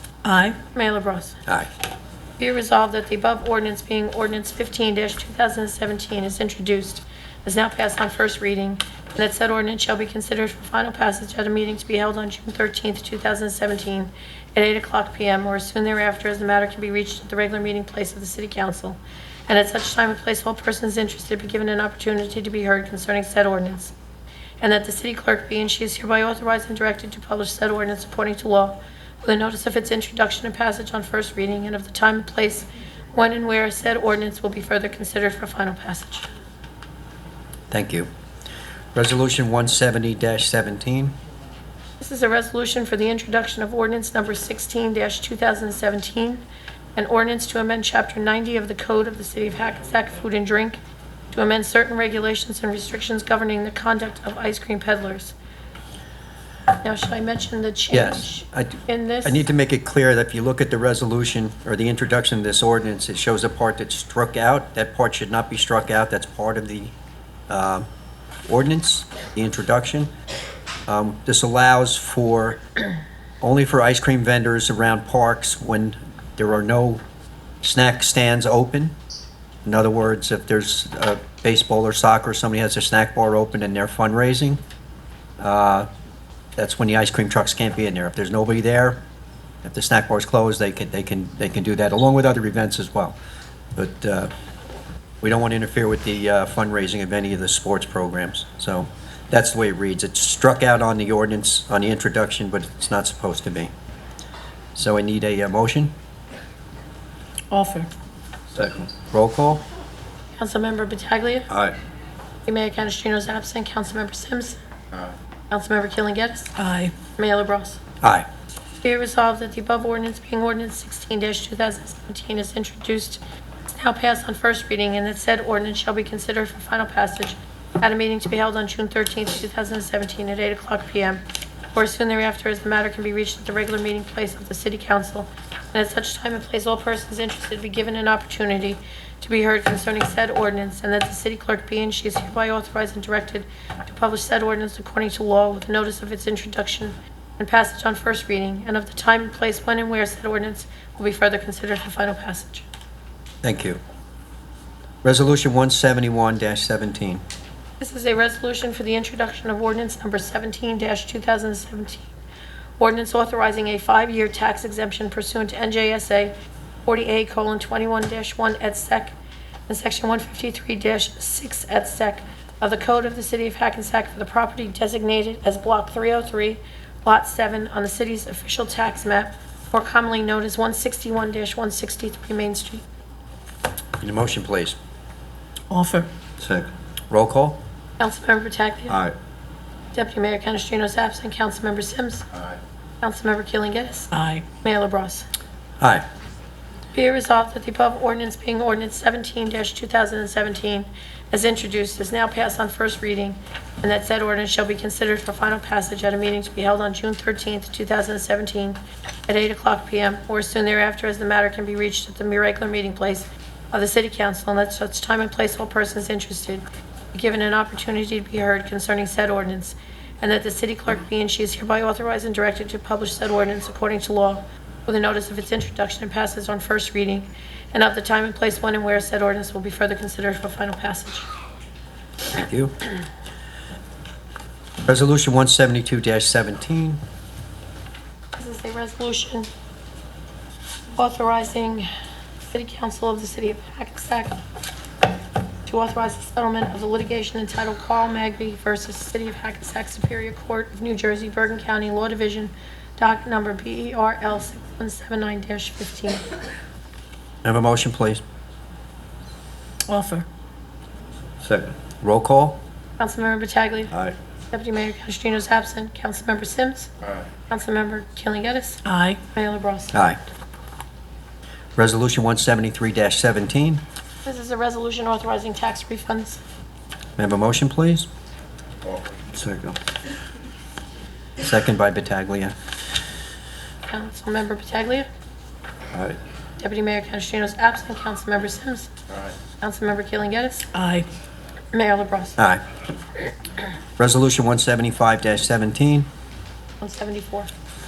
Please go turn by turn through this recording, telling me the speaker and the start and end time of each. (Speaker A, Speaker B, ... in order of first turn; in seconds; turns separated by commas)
Speaker A: 0.2-0.6, Speaker B: 0.7-1.4, Speaker B: 2.4-23.9, Speaker B: 24.6-36.3, Speaker C: 37.7-38.1, Speaker C: 38.9-41.1, Speaker B: 42.0-46.4, Speaker B: 47.0-50.8, Speaker B: 51.3-55.3, Speaker B: 56.8-59.4, Speaker C: 57.9-66.9, Speaker C: 67.5-67.8, Speaker C: 68.5-70.1, Speaker C: 70.9-72.6, Speaker C: 73.4-77.0, Speaker C: 77.6-78.9, Speaker C: 79.6-84.6, Speaker C: 85.4-85.9, Speaker C: 86.5-89.0, Speaker C: 89.6-93.2, Speaker C: 93.7-94.3, Speaker C: 95.2-103.7, Speaker C: 104.7-105.9, Speaker A: 107.5-107.9, Speaker C: 108.5-109.6, Speaker B: 110.3-111.5, Speaker C: 111.5-111.8, Speaker B: 112.5-114.6, Speaker B: 115.5-116.5, Speaker A: 116.5-116.9, Speaker B: 117.2-117.8, Speaker C: 118.0-118.3, Speaker B: 118.8-131.2, Speaker B: 131.7-152.7, Speaker C: 153.4-153.8, Speaker C: 155.0-157.2, Speaker B: 157.8-162.1, Speaker B: 162.8-166.3, Speaker B: 166.8-169.1, Speaker B: 169.7-182.8, Speaker C: 184.0-184.8, Speaker A: 185.7-186.1, Speaker C: 186.4-187.6, Speaker B: 188.0-189.0, Speaker C: 188.9-189.1, Speaker B: 189.9-192.2, Speaker B: 193.0-195.2, Speaker A: 194.1-194.4, Speaker C: 195.8-196.0, Speaker B: 196.9-231.2, Speaker C: 232.3-232.8, Speaker C: 234.8-237.0, Speaker B: 238.3-239.5, Speaker B: 240.9-241.9, Speaker B: 242.5-244.4, Speaker B: 245.7-256.2, Speaker C: 257.4-258.2, Speaker A: 259.9-260.2, Speaker C: 261.4-262.6, Speaker B: 263.0-263.9, Speaker B: 264.5-266.9, Speaker B: 267.5-270.0, Speaker A: 268.8-269.2, Speaker C: 269.9-270.2, Speaker C: 271.8-273.8, Speaker B: 274.2-276.4, Speaker C: 277.2-278.1, Speaker C: 279.3-279.8, Speaker C: 281.4-282.5, Speaker B: 283.9-285.1, Speaker B: 286.6-288.9, Speaker B: 289.6-290.7, Speaker A: 290.7-291.1, Speaker B: 291.7-292.4, Speaker C: 292.4-292.6, Speaker C: 294.0-296.1, Speaker B: 296.8-297.5